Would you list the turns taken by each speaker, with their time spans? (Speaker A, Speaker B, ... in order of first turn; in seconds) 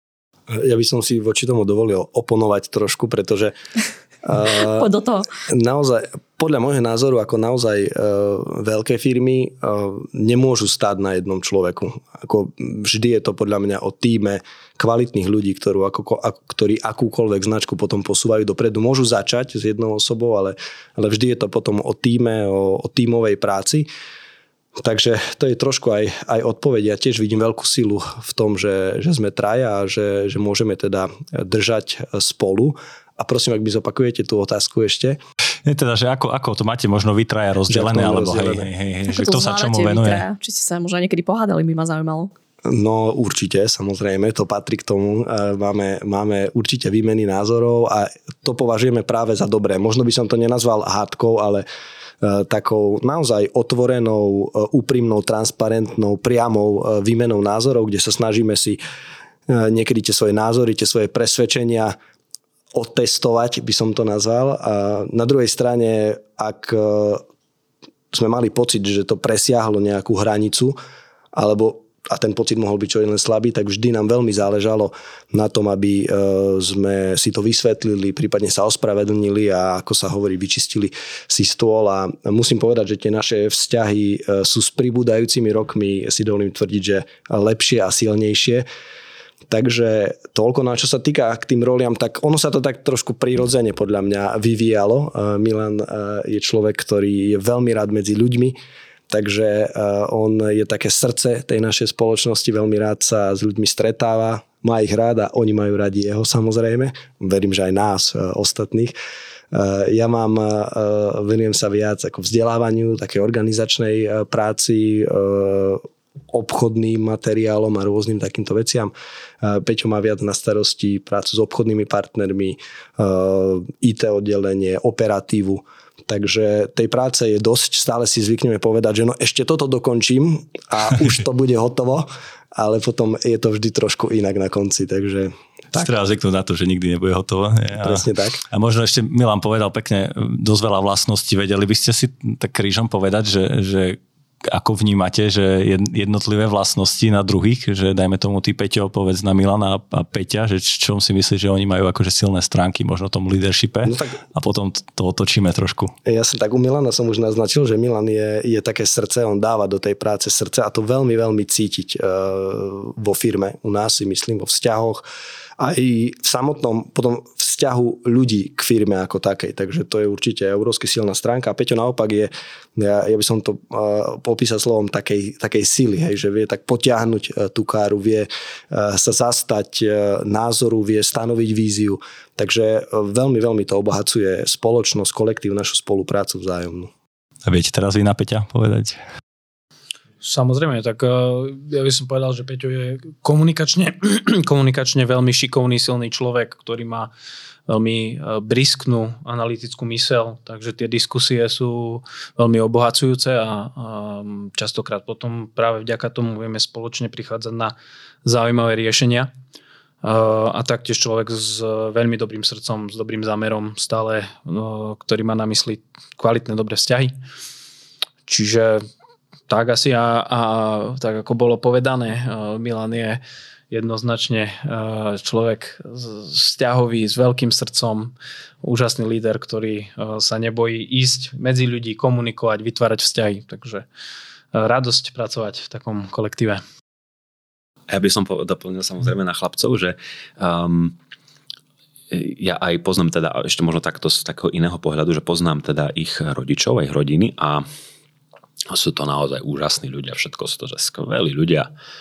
Speaker A: 0.5-3.5, 4.2-4.9, 5.5-23.9, 24.8-35.2, 37.7-38.7, 42.7-51.6, 52.2-58.8, 59.5-62.0, 62.7-67.2, 68.1-70.8, 71.3-88.7, 89.5-98.5, 99.1-108.9, 109.5-135.9, 137.7-138.4, 153.9-154.2, 156.1-165.0, 165.6-186.9
Speaker B: 4.8-5.3, 39.1-42.3
Speaker C: 35.6-40.2, 135.8-155.9, 187.5-189.0
Speaker D: 190.2-197.1, 197.7-209.3, 210.0-217.1, 218.2-218.8, 219.5-233.9, 234.5-236.6
Speaker E: 237.9-241.0, 242.1-247.7, 248.7-251.7